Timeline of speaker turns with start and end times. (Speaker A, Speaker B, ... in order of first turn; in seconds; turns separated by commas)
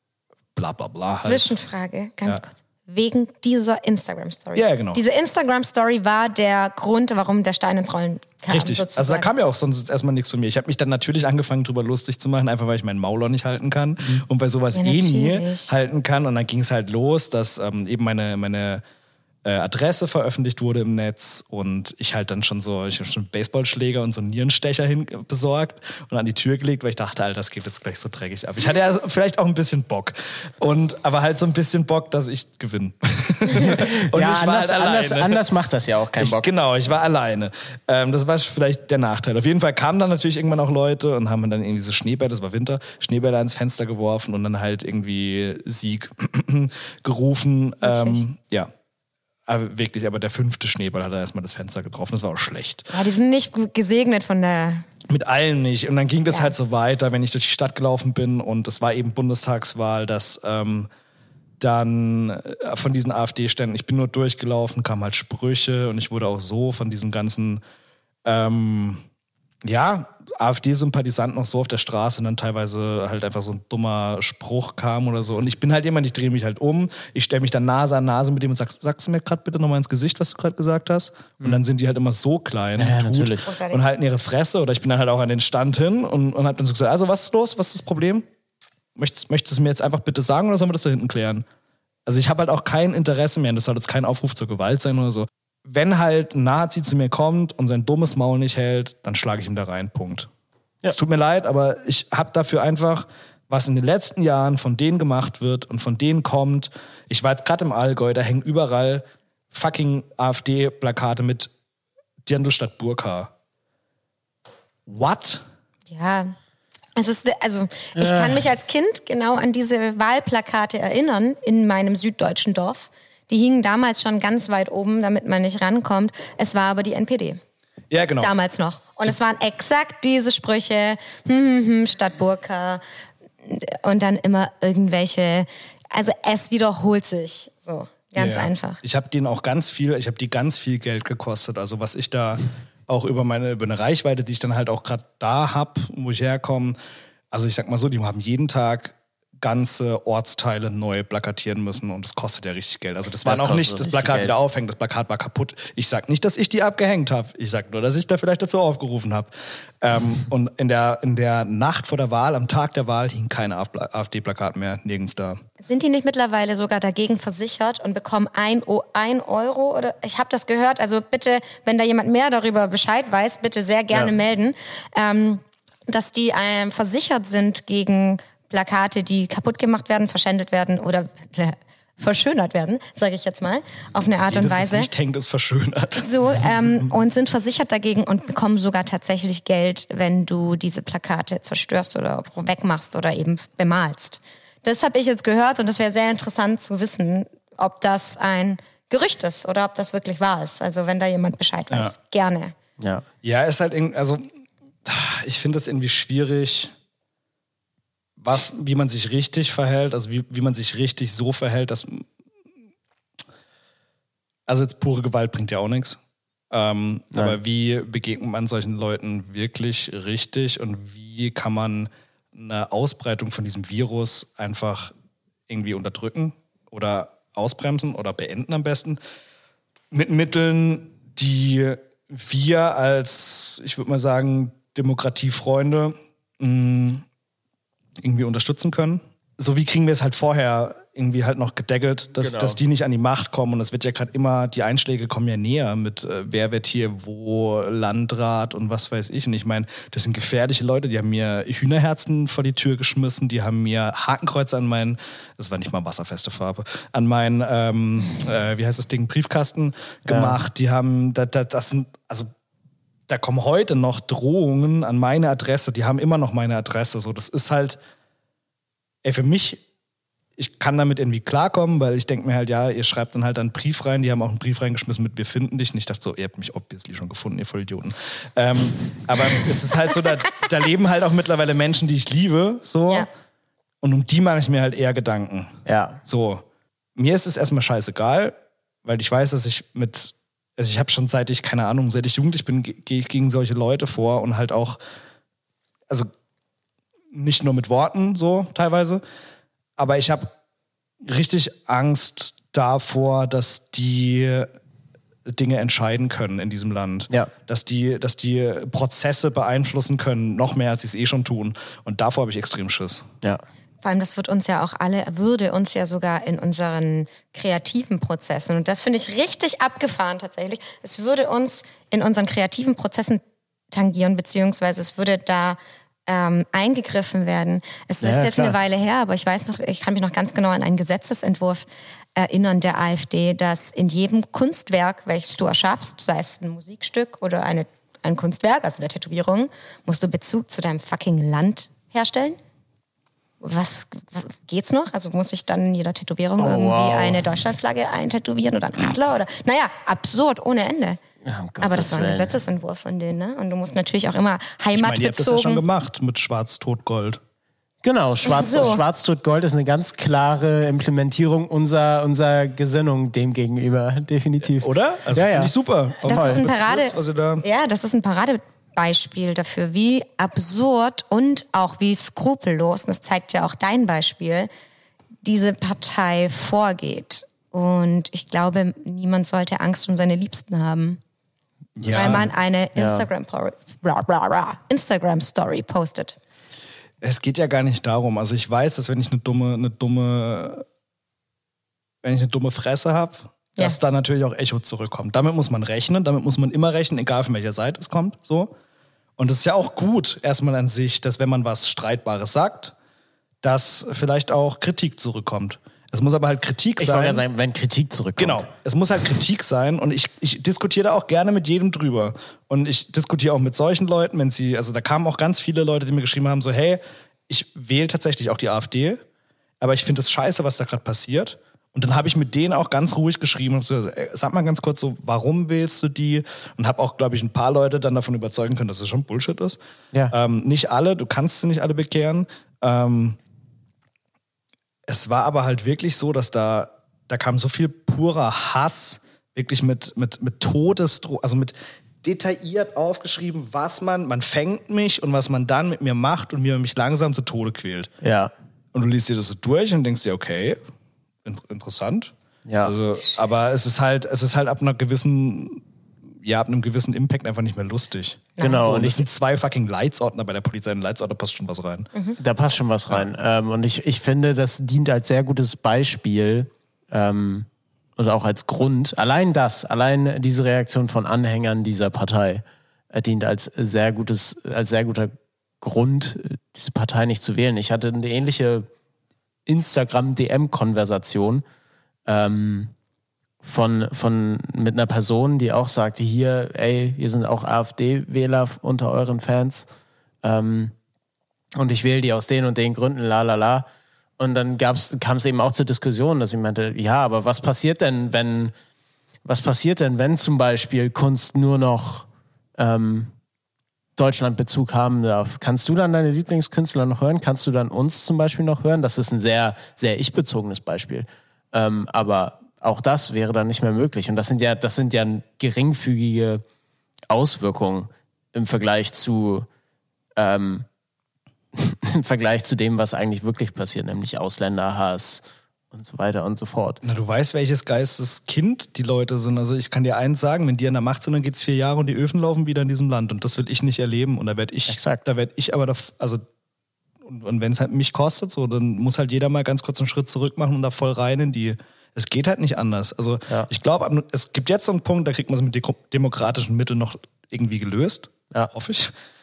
Speaker A: 0.6-1.5, Speaker B: 1.2-9.3, Speaker A: 4.5-5.0, Speaker A: 8.5-18.8, Speaker B: 14.7-15.7, Speaker A: 19.4-35.4, Speaker C: 33.5-36.5, Speaker A: 36.2-48.7, Speaker B: 47.8-48.2, Speaker A: 49.5-52.9, Speaker B: 52.9-54.8, Speaker A: 55.1-60.9, Speaker A: 61.6-67.6, Speaker A: 68.2-69.0, Speaker A: 69.6-88.2, Speaker C: 82.8-83.5, Speaker B: 83.4-83.8, Speaker A: 89.0-91.5, Speaker A: 92.0-100.3, Speaker A: 100.9-111.5, Speaker A: 112.2-113.3, Speaker A: 114.9-115.4, Speaker B: 115.9-116.3, Speaker B: 117.0-127.4, Speaker C: 118.0-118.4, Speaker A: 127.9-128.3, Speaker B: 128.2-132.8, Speaker B: 133.4-138.8, Speaker A: 138.2-146.8, Speaker A: 147.3-165.4, Speaker C: 153.2-154.3, Speaker B: 165.6-184.9, Speaker A: 184.3-186.1, Speaker B: 186.0-202.5, Speaker C: 202.8-203.0, Speaker A: 203.2-204.2, Speaker A: 204.8-206.7, Speaker A: 208.2-212.1, Speaker A: 214.5-216.0, Speaker A: 216.5-224.9, Speaker A: 225.5-229.0, Speaker A: 229.9-237.0, Speaker A: 238.0-262.3, Speaker C: 242.2-242.6, Speaker C: 260.1-260.4, Speaker A: 263.1-267.8, Speaker A: 269.0-269.6, Speaker A: 270.4-283.1, Speaker A: 283.8-286.4, Speaker C: 285.6-286.0, Speaker A: 286.9-294.8, Speaker A: 297.1-299.0, Speaker A: 299.8-300.3, Speaker A: 301.0-304.5, Speaker A: 305.2-313.1, Speaker B: 313.8-342.4, Speaker C: 328.0-328.5, Speaker B: 343.4-351.0, Speaker C: 346.4-347.2, Speaker C: 351.2-352.4, Speaker B: 351.6-355.6, Speaker A: 354.7-357.2, Speaker C: 357.8-365.5, Speaker B: 358.2-358.8, Speaker A: 364.6-367.4, Speaker B: 366.0-374.5, Speaker C: 366.1-366.4, Speaker B: 375.2-381.0, Speaker A: 381.8-382.3, Speaker C: 381.8-383.1, Speaker B: 381.9-386.2, Speaker A: 387.0-390.6, Speaker A: 392.0-398.5, Speaker A: 399.2-402.7, Speaker A: 403.4-407.2, Speaker C: 406.8-408.5, Speaker A: 408.2-419.0, Speaker A: 419.6-429.6, Speaker A: 430.1-433.2, Speaker A: 434.9-447.9, Speaker C: 448.0-448.3, Speaker A: 448.7-450.6, Speaker A: 451.2-452.1, Speaker C: 452.4-452.7, Speaker A: 452.6-455.6, Speaker A: 456.2-461.9, Speaker B: 458.4-458.6, Speaker C: 458.4-459.1, Speaker C: 462.2-478.6, Speaker C: 479.4-481.4, Speaker C: 482.1-482.7, Speaker C: 483.4-489.7, Speaker C: 490.2-490.7, Speaker C: 491.5-493.6, Speaker C: 494.2-498.5, Speaker C: 499.2-503.1, Speaker C: 504.0-516.4, Speaker C: 517.1-519.5, Speaker C: 520.2-520.7, Speaker C: 521.5-526.8, Speaker A: 526.8-536.2, Speaker C: 534.7-535.0, Speaker A: 537.0-548.9